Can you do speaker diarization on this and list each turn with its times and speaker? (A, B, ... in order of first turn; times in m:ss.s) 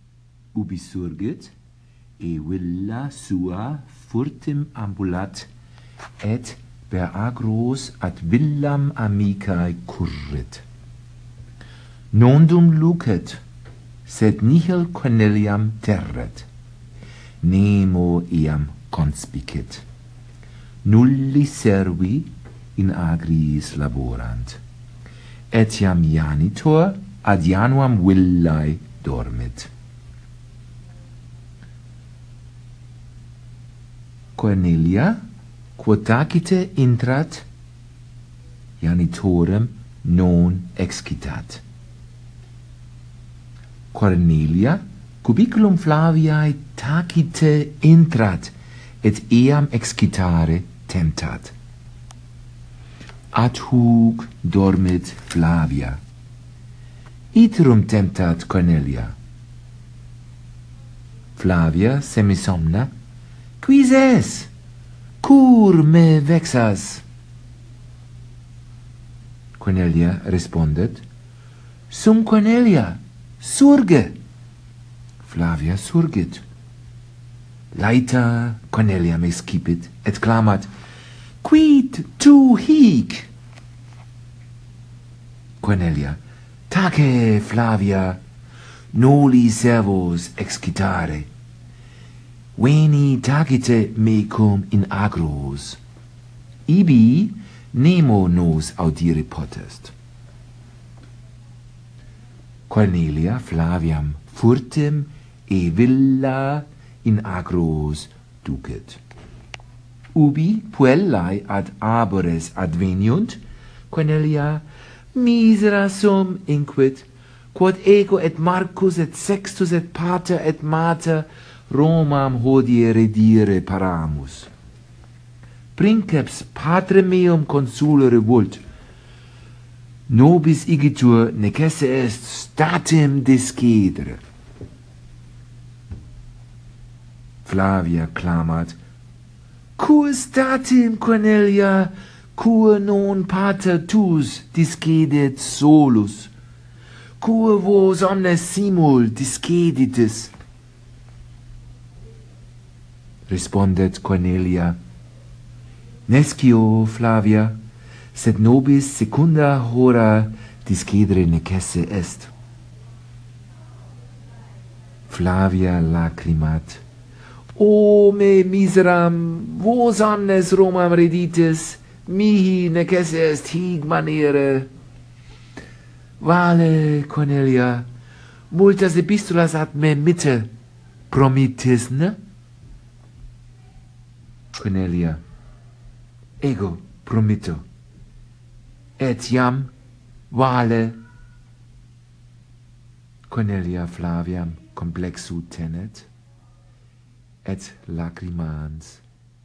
0:00.5-0:01.5 A
0:02.2-0:05.5 A
0:06.2-0:10.6 A
0:12.1-0:13.4 A
0:14.0-0:16.5 A
0:17.4-0:19.8 A
0:20.8-0:24.6 A
0:25.5-0:29.7 A
0:34.4-0:35.2 A
0:35.8-0:37.4 A
0:38.8-0:41.6 A
0:43.9-0:51.5 A
0:53.3-0:56.0 A
0:57.3-0:59.2 A
1:01.4-1:02.9 A
1:03.6-1:04.5 A
1:05.2-1:07.0 A
1:09.6-1:11.0 A
1:11.9-1:14.2 A
1:15.2-1:16.4 A
1:17.7-1:20.7 A
1:21.4-1:23.3 A
1:25.6-1:26.2 A
1:26.7-1:28.2 A
1:28.9-1:31.3 A
1:32.6-1:35.8 A
1:36.7-1:39.9 A
1:42.7-1:49.0 A
1:50.2-2:04.5 A
2:05.8-2:08.6 A
2:10.1-2:14.2 A
2:17.4-2:18.8 A
2:19.8-2:26.3 A
2:27.2-2:30.3 A
2:33.3-2:34.8 A
2:36.1-2:37.6 A
2:38.1-2:42.3 A
2:45.1-2:46.8 A
2:47.6-2:54.7 A
2:56.2-2:57.9 A
2:58.5-3:00.5 A
3:01.1-3:02.2 A
3:04.5-3:05.2 A
3:06.4-3:07.6 A
3:09.0-3:09.7 A
3:10.3-3:11.0 A
3:13.3-3:16.1 A
3:17.4-3:19.0 A